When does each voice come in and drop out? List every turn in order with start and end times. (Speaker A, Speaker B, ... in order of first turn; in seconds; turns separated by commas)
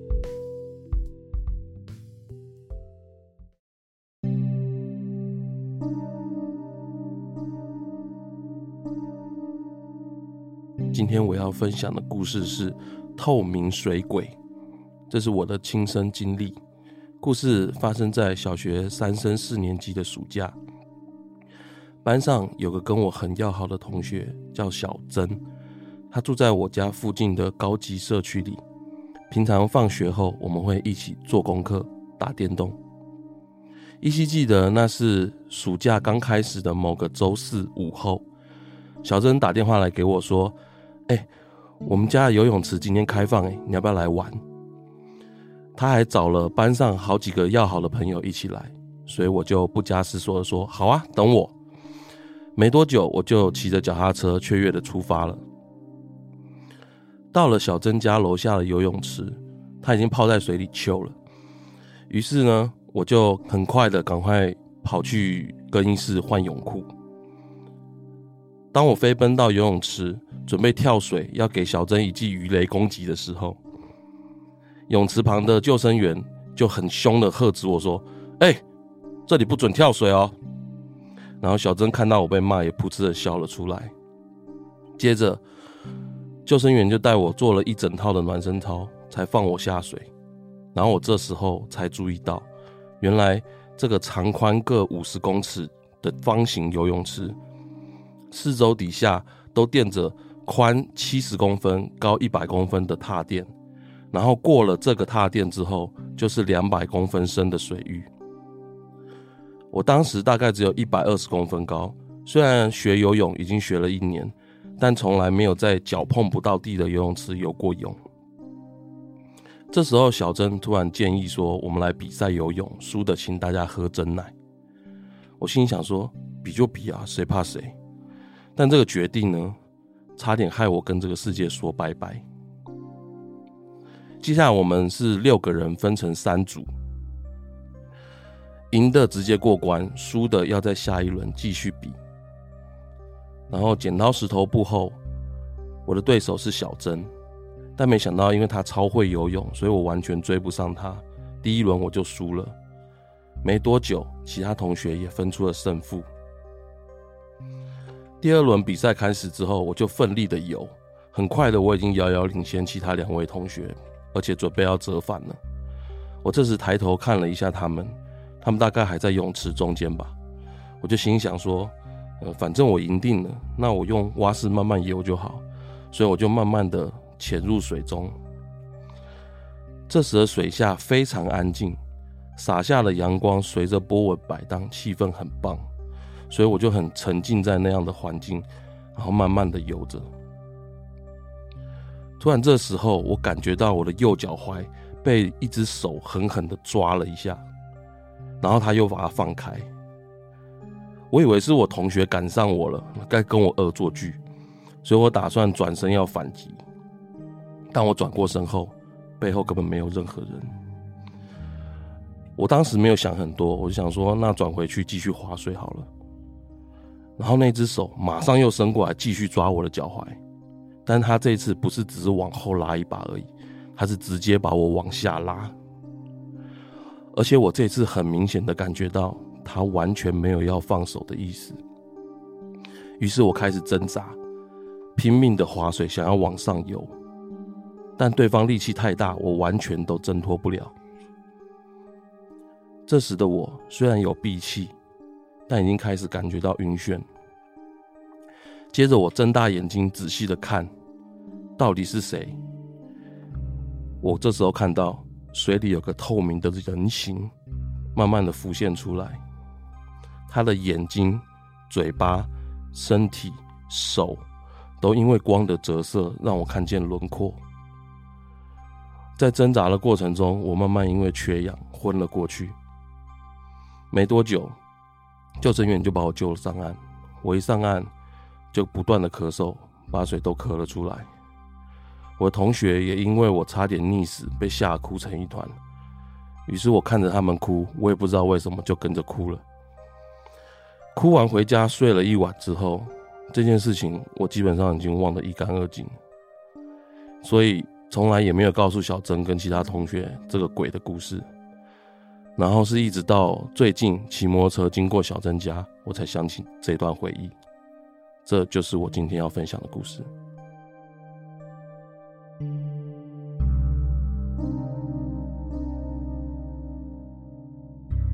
Speaker A: 10.9-14.3, Speaker A: 15.1-16.6, Speaker A: 17.2-20.5, Speaker A: 22.0-25.4, Speaker A: 26.1-28.6, Speaker A: 29.3-32.8, Speaker A: 34.0-38.2, Speaker A: 39.0-40.5, Speaker A: 41.8-44.4, Speaker A: 45.8-51.5, Speaker A: 52.6-55.4, Speaker A: 57.3-61.1, Speaker A: 62.1-66.9, Speaker A: 68.7-73.6, Speaker A: 74.9-78.6, Speaker A: 79.3-80.3, Speaker A: 81.4-83.9, Speaker A: 85.0-85.4, Speaker A: 86.5-90.1, Speaker A: 90.7-92.5, Speaker A: 93.0-97.4, Speaker A: 98.3-103.5, Speaker A: 104.1-108.1, Speaker A: 109.7-118.0, Speaker A: 119.7-124.3, Speaker A: 125.4-127.7, Speaker A: 128.6-129.6, Speaker A: 130.2-132.2, Speaker A: 134.2-136.7, Speaker A: 138.7-142.0, Speaker A: 143.5-145.0, Speaker A: 145.9-147.1, Speaker A: 147.8-152.5, Speaker A: 153.4-156.1, Speaker A: 158.2-165.4, Speaker A: 166.2-170.1, Speaker A: 170.8-178.2, Speaker A: 179.9-181.8, Speaker A: 182.4-185.6, Speaker A: 186.3-190.1, Speaker A: 192.2-197.4, Speaker A: 198.4-199.7, Speaker A: 201.1-204.2, Speaker A: 204.8-206.6, Speaker A: 207.7-210.5, Speaker A: 212.4-215.9, Speaker A: 217.2-220.2, Speaker A: 220.9-225.5, Speaker A: 227.1-231.6, Speaker A: 233.0-234.2, Speaker A: 235.0-236.9, Speaker A: 238.0-240.7, Speaker A: 242.9-244.7, Speaker A: 245.5-247.0, Speaker A: 248.7-250.7, Speaker A: 251.6-252.3, Speaker A: 254.0-257.3, Speaker A: 257.9-259.2, Speaker A: 260.3-264.2, Speaker A: 264.8-267.4, Speaker A: 269.2-272.6, Speaker A: 273.9-274.5, Speaker A: 275.4-277.9, Speaker A: 278.5-281.1, Speaker A: 282.2-285.5, Speaker A: 286.5-289.4, Speaker A: 290.9-295.9, Speaker A: 297.2-301.2, Speaker A: 302.4-307.3, Speaker A: 308.3-310.1